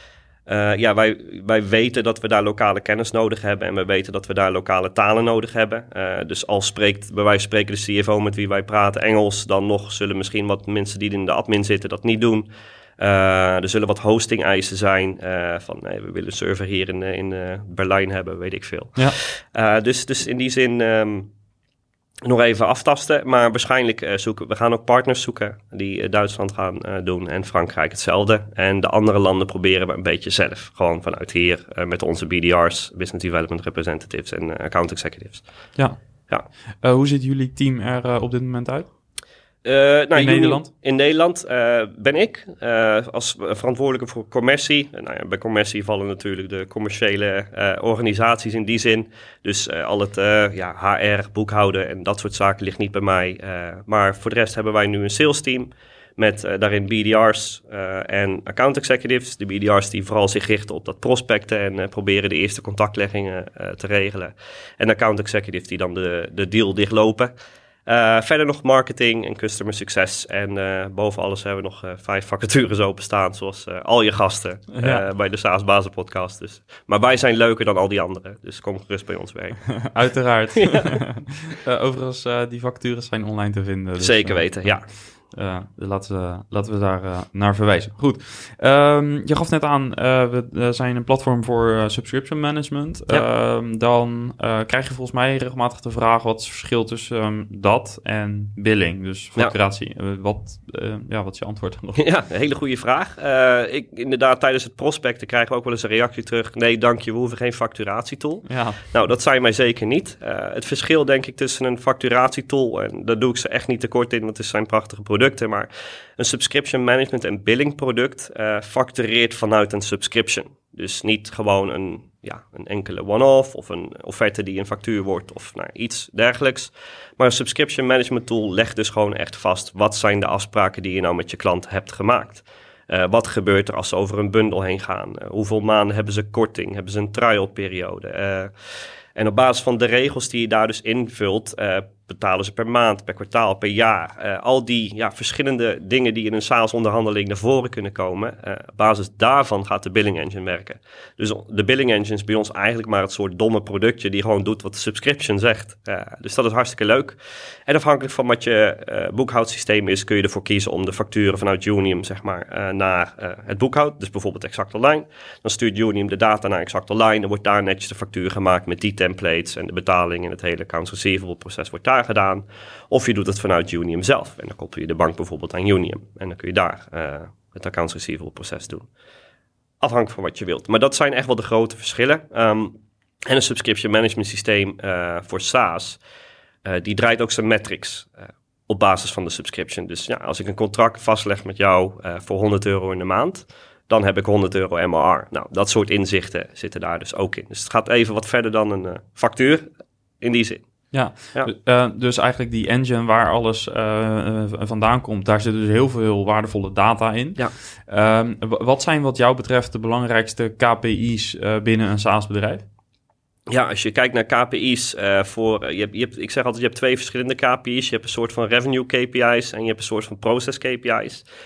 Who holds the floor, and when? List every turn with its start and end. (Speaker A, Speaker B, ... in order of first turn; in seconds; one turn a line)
Speaker A: 0.5-12.5
Speaker A: 13.0-21.3
Speaker A: 22.2-35.4
Speaker B: 36.8-38.9
Speaker A: 39.6-67.3
Speaker B: 40.1-40.7
Speaker A: 67.9-79.9
Speaker B: 74.7-75.0
Speaker B: 79.8-102.0
Speaker A: 80.6-81.0
Speaker A: 84.0-84.9
Speaker A: 102.0-138.5
Speaker B: 108.5-108.8
Speaker A: 139.2-178.9
Speaker A: 179.8-186.0
Speaker A: 186.7-199.7
Speaker A: 200.2-200.7
Speaker B: 200.9-212.6
Speaker A: 213.5-221.3